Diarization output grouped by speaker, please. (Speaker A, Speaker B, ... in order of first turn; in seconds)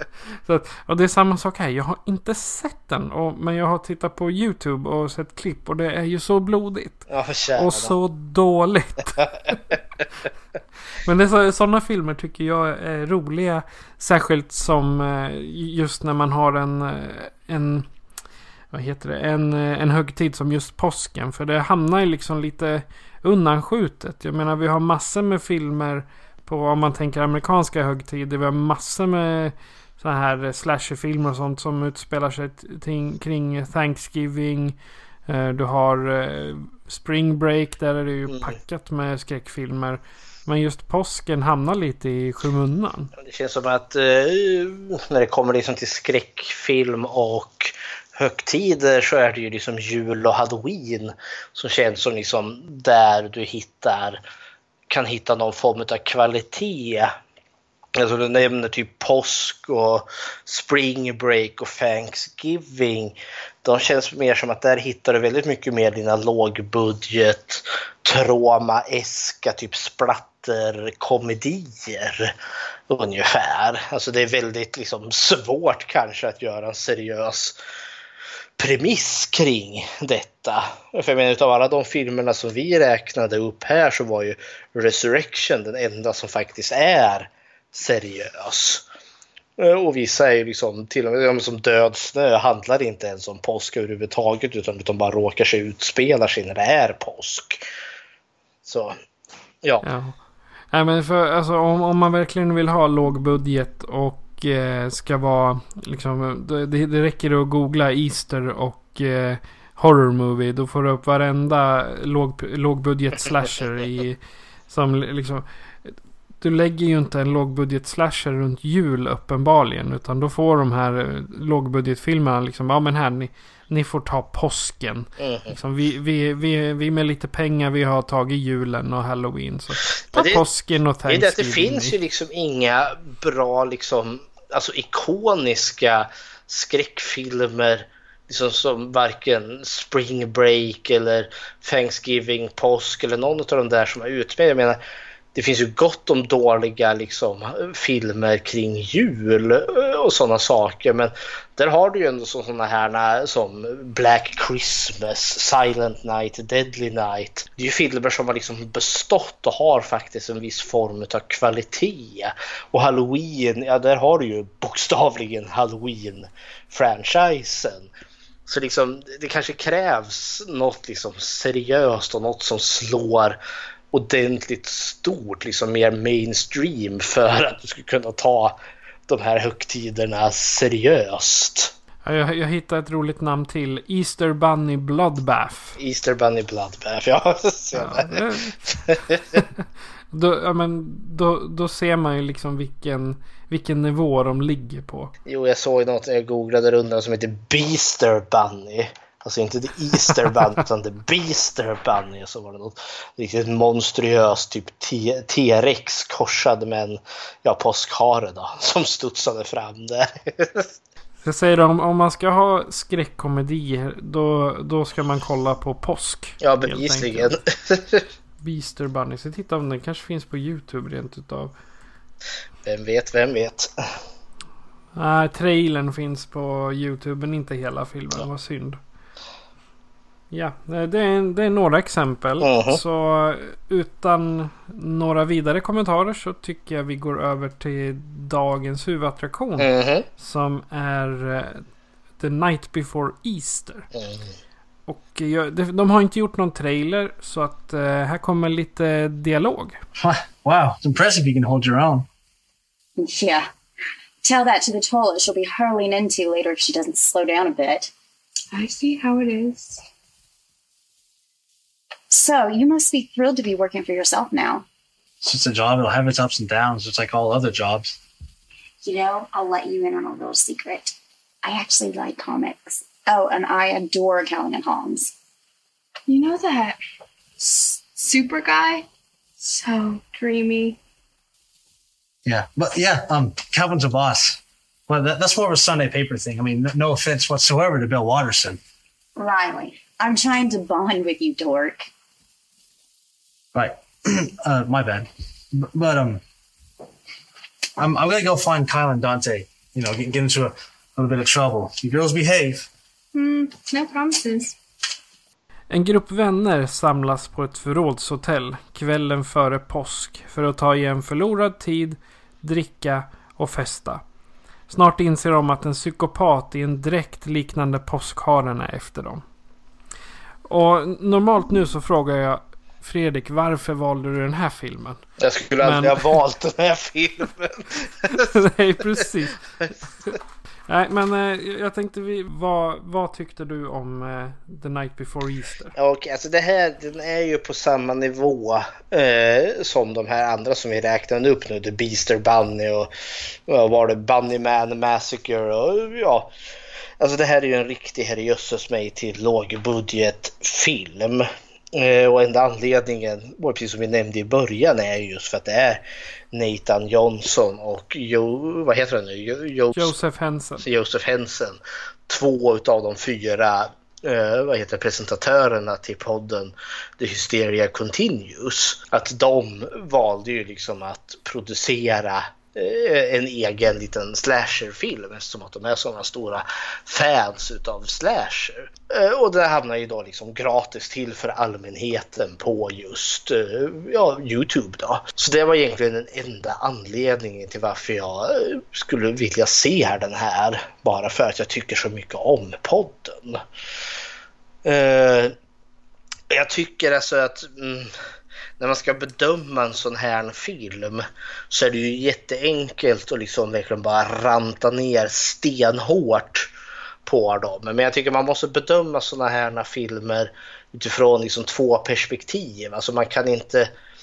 Speaker A: 0.4-9.6, 11.0-17.9, 18.7-34.8, 35.3-43.1, 99.8-100.2, 100.7-131.9, 182.0-185.8, 187.7-188.6, 190.1-195.1, 211.2-217.3, 218.4-221.5, 224.9-228.8, 230.3-241.6, 242.2-243.9, 244.9-249.8, 305.7-314.0, 314.7-319.2, 320.4-325.0, 325.6-326.1, 328.1-329.4, 330.7-335.7, 359.7-360.6
Speaker B: 7.1-7.9, 43.2-54.2, 54.9-57.1, 58.0-72.3, 72.9-77.5, 78.6-88.8, 89.6-97.6, 98.7-99.0, 125.2-125.5, 130.1-130.4, 131.1-144.8, 145.3-167.9, 168.5-173.4, 173.9-178.6, 179.1-181.7, 185.8-189.4, 195.2-210.7, 216.4-218.1, 222.6-223.7, 232.4-232.8, 239.6-240.1, 243.9-244.3, 325.2-328.2, 335.8-342.9, 343.5-346.3, 347.0-359.9, 360.6-393.4, 394.6-395.3, 396.3-397.9, 398.6-406.5, 407.1-413.7
Speaker C: 250.0-252.1, 265.2-268.0, 282.2-288.6, 293.5-296.2, 297.8-302.7
Speaker D: 253.0-253.5, 254.2-257.9, 262.1-264.6, 268.8-275.1, 289.2-291.9
Speaker E: 258.5-259.8, 276.1-276.8, 277.4-278.9, 279.4-280.8, 303.1-304.6